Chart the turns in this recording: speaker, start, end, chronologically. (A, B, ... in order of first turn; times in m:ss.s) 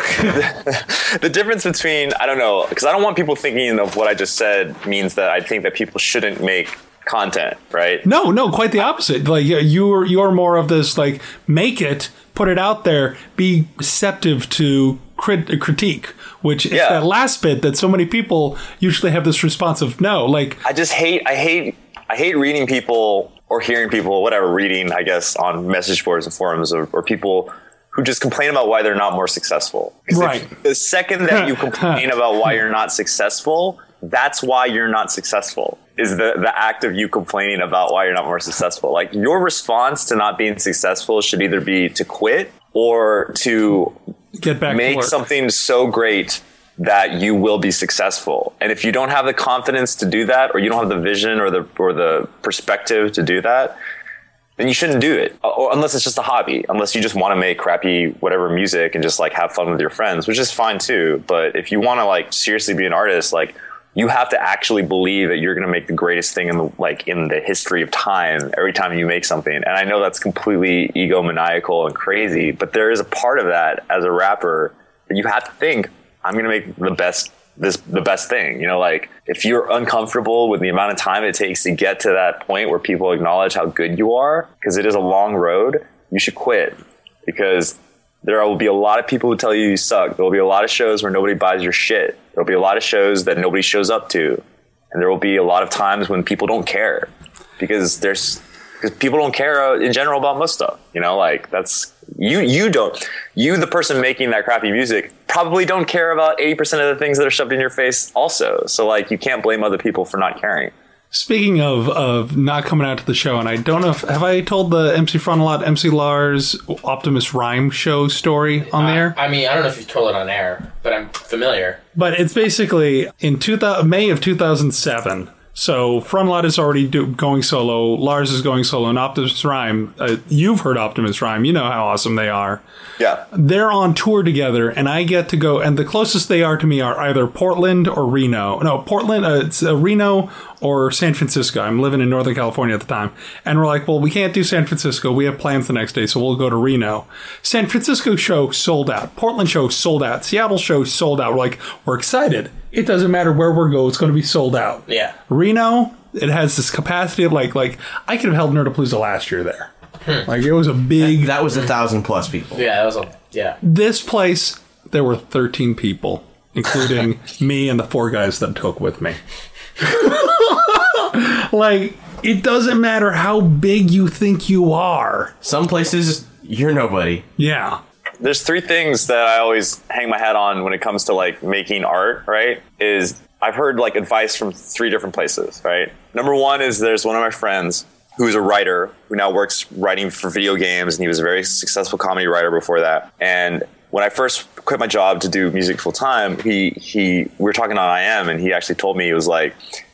0:00.3-0:08.0 A
0:08.0-0:20.6 B
0:16.7-0:17.0 A
0:20.6-0:43.9 A
0:30.1-0:30.5 B
0:31.3-0:32.0 B
0:44.4-0:45.1 B
0:44.7-0:53.8 A
0:54.6-1:26.7 A
1:27.2-1:50.7 A
1:51.1-1:59.2 B
1:58.7-2:01.8 C
2:02.0-2:12.6 B
2:13.3-2:39.7 B
2:34.9-2:35.1 C
2:40.2-2:41.3 B
2:41.0-2:42.6 D
2:42.6-2:43.6 C
2:43.6-2:49.2 B
2:49.8-2:55.3 B
2:55.4-2:57.2 D
2:57.4-2:57.8 B
2:58.2-3:19.6 A